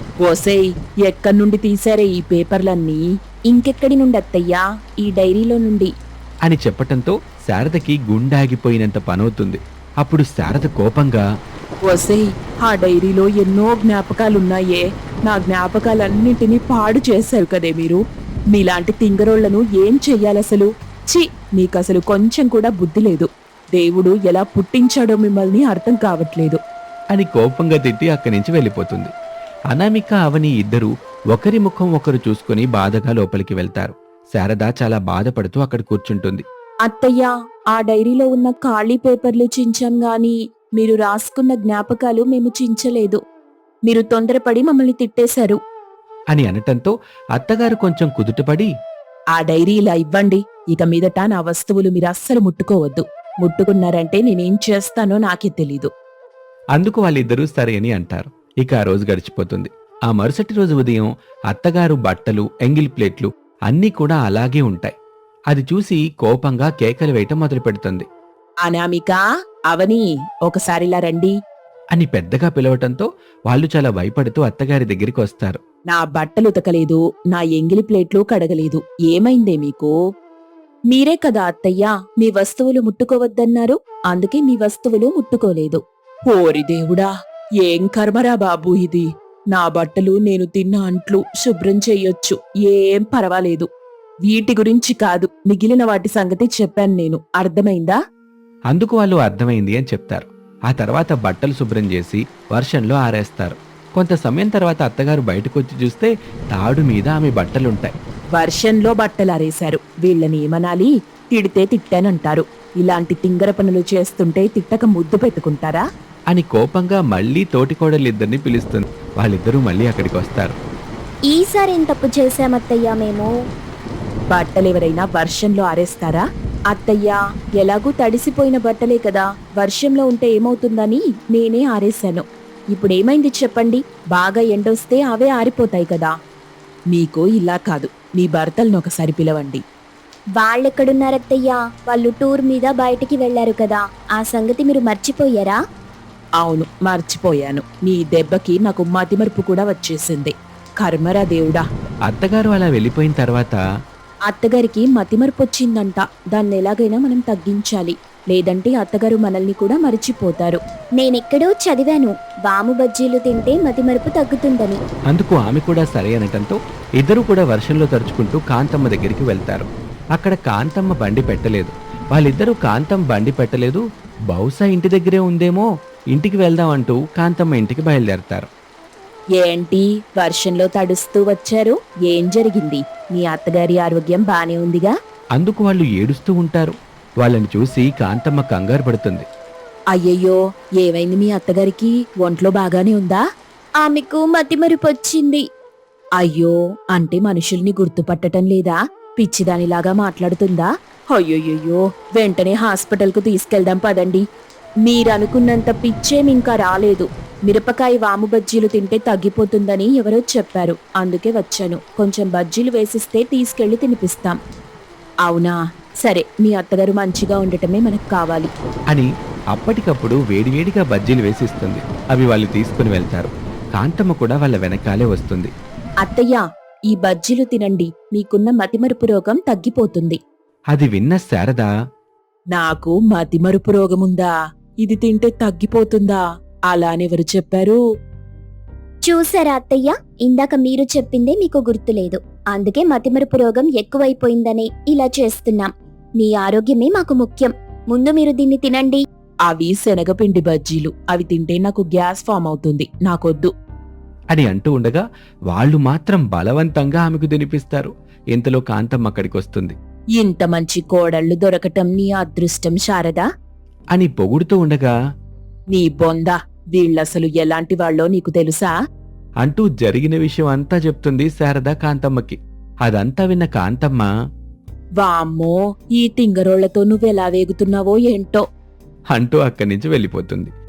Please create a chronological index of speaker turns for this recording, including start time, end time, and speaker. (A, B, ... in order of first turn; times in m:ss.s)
0:00.2-0:05.9 A
0:06.4-0:11.2 B
0:11.8-0:18.0 A
0:18.5-0:26.6 A
0:27.1-0:29.1 B
0:29.7-0:36.4 B
0:36.9-0:43.2 A
0:43.9-0:45.6 A
0:46.3-0:48.7 B
0:49.4-0:55.9 A
0:56.8-1:04.9 B
1:05.5-1:08.1 B
1:08.6-1:09.2 A
1:09.7-1:11.3 A
1:11.9-1:15.6 B
1:15.9-1:20.0 A
1:20.9-1:27.1 A
1:27.6-1:33.7 A
1:34.3-1:38.0 A
1:38.7-1:47.9 B
1:48.4-1:55.8 A
1:56.3-2:00.6 B
2:01.3-2:03.3 C
2:04.3-2:16.1 A
2:16.9-2:19.6 A
2:20.4-2:25.6 C
2:26.4-2:31.6 A
2:32.1-2:33.6 B
2:34.3-2:40.6 A
2:41.0-2:44.8 C
2:45.1-2:58.5 B
2:59.4-3:04.9 A
3:05.4-3:09.3 B
3:09.9-3:13.2 A
3:13.8-3:15.4 C
3:16.2-3:24.2 A
3:24.8-3:34.4 A
3:35.3-3:38.5 A
3:38.9-3:45.5 B
3:46.0-3:50.2 A
3:50.7-3:51.7 B
3:52.5-3:54.3 A
3:54.8-3:57.8 A
3:59.1-4:05.7 C
4:06.2-4:09.0 C
4:09.5-4:13.5 A
4:14.3-4:19.8 B
4:20.2-4:23.3 A
4:23.9-4:24.9 B
4:25.7-4:28.8 A
4:29.4-4:34.1 B
4:35.0-4:38.4 A
4:39.1-4:40.5 B